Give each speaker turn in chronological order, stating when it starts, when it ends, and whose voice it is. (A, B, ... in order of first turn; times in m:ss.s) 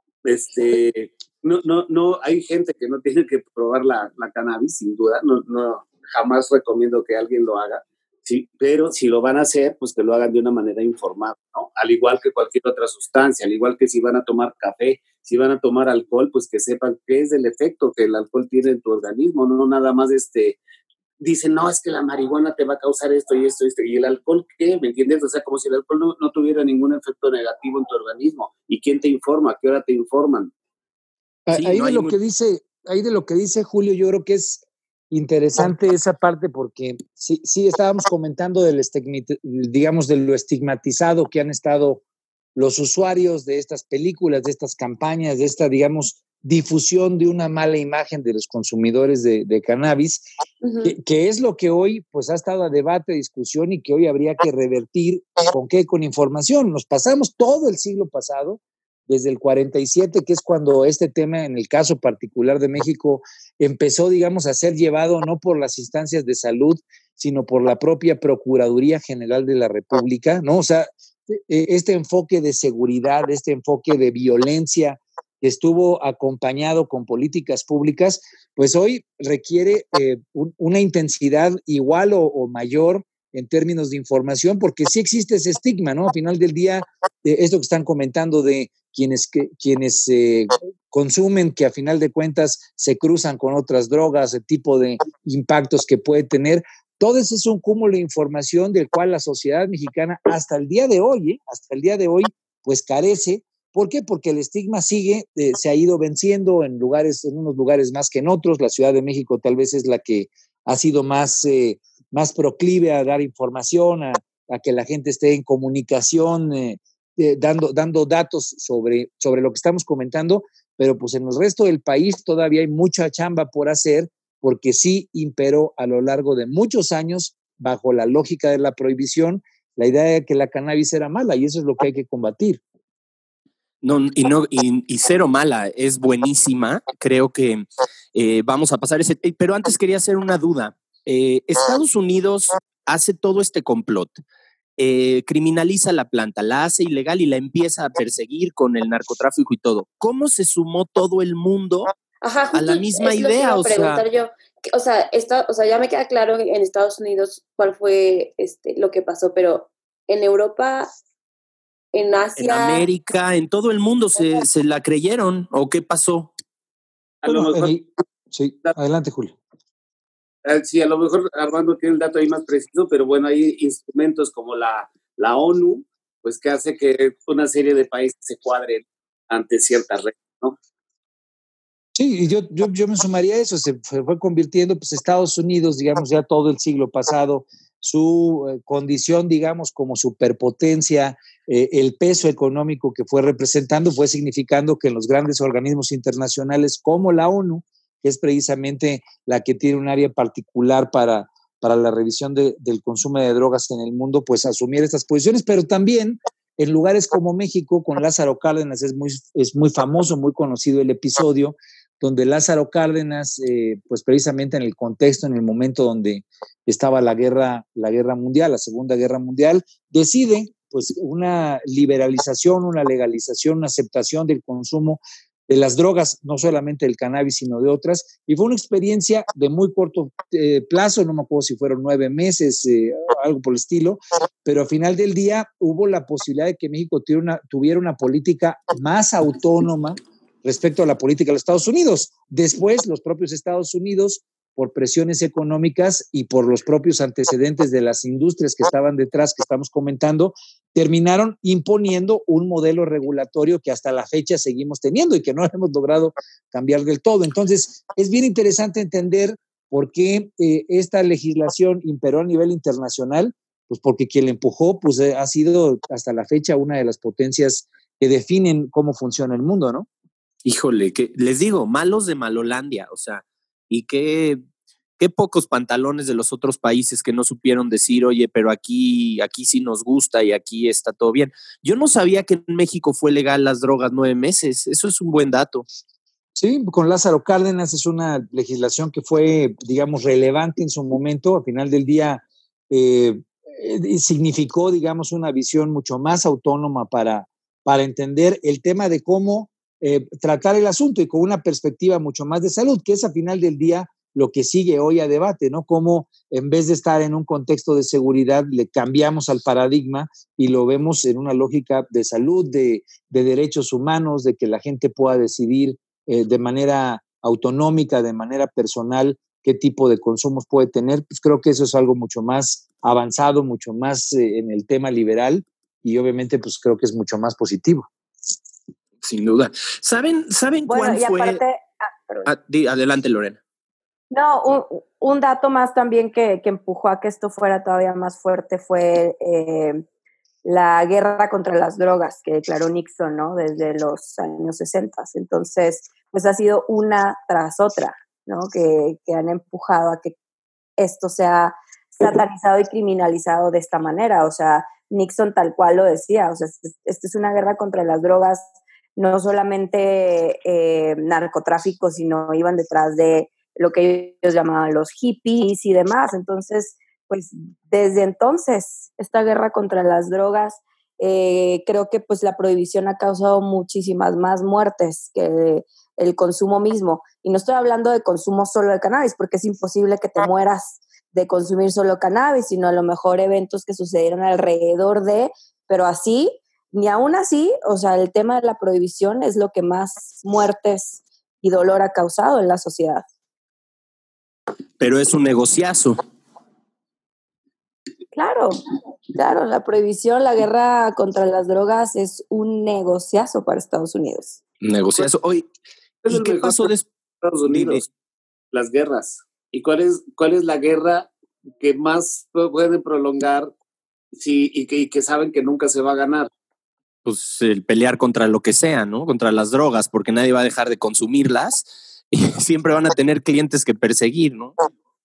0:00.2-0:20.6 A
0:21.2-0:30.5 A
0:31.5-0:42.0 B
0:31.6-0:32.2 C
0:42.6-0:50.2 B
0:50.6-0:51.0 D
0:50.8-2:12.6 B
2:13.8-2:24.2 C
2:24.8-2:31.9 C
2:32.2-2:40.9 D
2:32.5-2:34.0 C
2:41.9-2:42.9 D
2:42.4-2:46.3 C
2:47.2-2:47.7 A
2:47.3-2:49.4 B
2:50.4-3:00.6 A
3:02.0-4:29.9 B
4:30.4-4:34.4 C
4:35.0-4:45.7 C
4:46.4-5:27.9 B
5:29.0-5:31.4 C
5:30.7-5:32.3 E
5:32.2-5:33.4 C
5:34.1-5:39.8 E
5:40.4-5:50.2 E
5:50.8-6:33.0 E
6:34.8-6:36.0 C
6:38.1-6:38.6 E
6:39.2-6:44.4 E
6:44.6-6:45.5 C
6:46.0-6:47.8 A
6:46.1-6:46.9 C
6:47.5-6:47.8 C
6:48.5-6:53.5 A
6:54.1-6:56.3 A
6:57.0-7:04.6 C